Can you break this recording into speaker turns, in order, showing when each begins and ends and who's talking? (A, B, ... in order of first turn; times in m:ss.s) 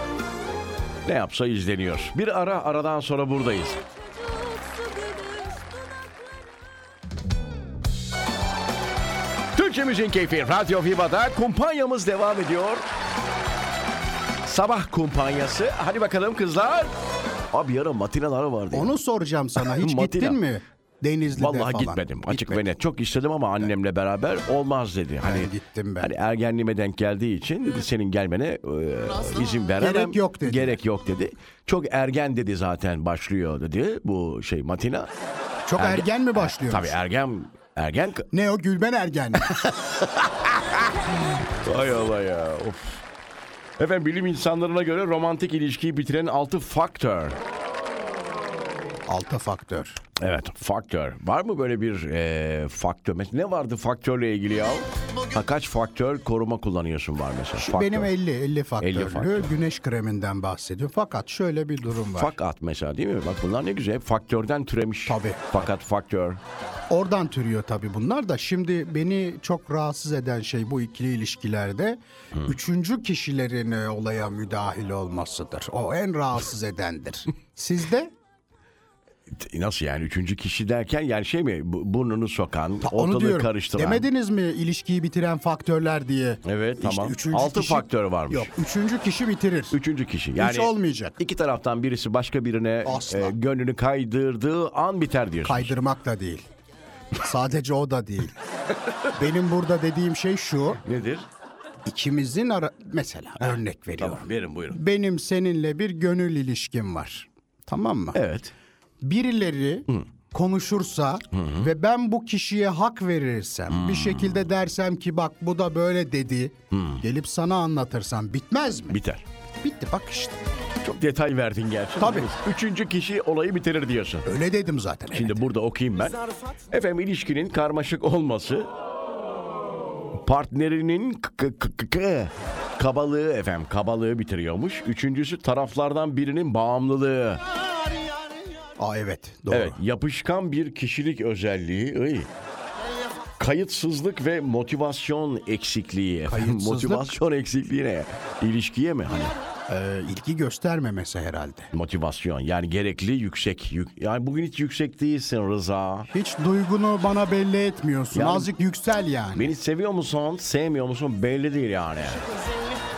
0:01.0-0:03.8 A
0:03.8-0:06.4 B
0:09.5-0:12.9 A
0:14.4-0:16.9 A
0:17.5-0:18.9 A
0:18.7-0:22.7 C
0:19.6-0:20.4 A
0:21.3-0:35.1 A
0:25.2-0:26.1 C
0:29.8-0:30.8 C
0:35.7-0:37.0 C
0:35.8-0:38.3 A
0:38.3-0:39.6 C
0:39.4-0:43.0 A
0:43.8-0:47.4 A
0:49.1-0:50.0 C
0:50.2-0:58.1 A
0:57.6-1:02.3 C
0:58.8-0:59.5 A
1:02.2-1:06.4 A
1:05.1-1:05.7 C
1:06.9-1:18.1 C
1:19.3-1:24.1 A
1:22.8-1:29.8 C
1:26.4-1:28.5 A
1:29.7-1:35.8 A
1:30.4-1:31.2 C
1:32.8-1:33.4 C
1:35.4-1:36.5 C
1:37.2-1:38.3 C
1:39.1-1:40.8 C
1:40.8-1:41.3 A
1:41.8-1:48.2 C
1:43.4-1:44.8 A
1:48.1-1:48.5 A
1:49.0-1:59.0 C
1:51.3-1:51.7 A
1:53.7-1:54.5 A
1:56.7-1:57.0 A
1:58.9-1:59.2 A
1:59.6-2:00.4 C
2:00.8-2:04.3 A
2:02.0-2:02.3 C
2:04.2-2:05.4 C
2:05.1-2:08.7 A
2:10.2-2:17.4 A
2:18.8-2:19.8 C
2:19.5-2:22.3 A
2:23.4-2:29.4 A
2:26.3-2:27.2 C
2:29.7-2:31.7 C
2:31.7-2:36.1 A
2:36.1-2:39.5 C
2:38.1-2:38.5 A
2:39.4-2:42.3 A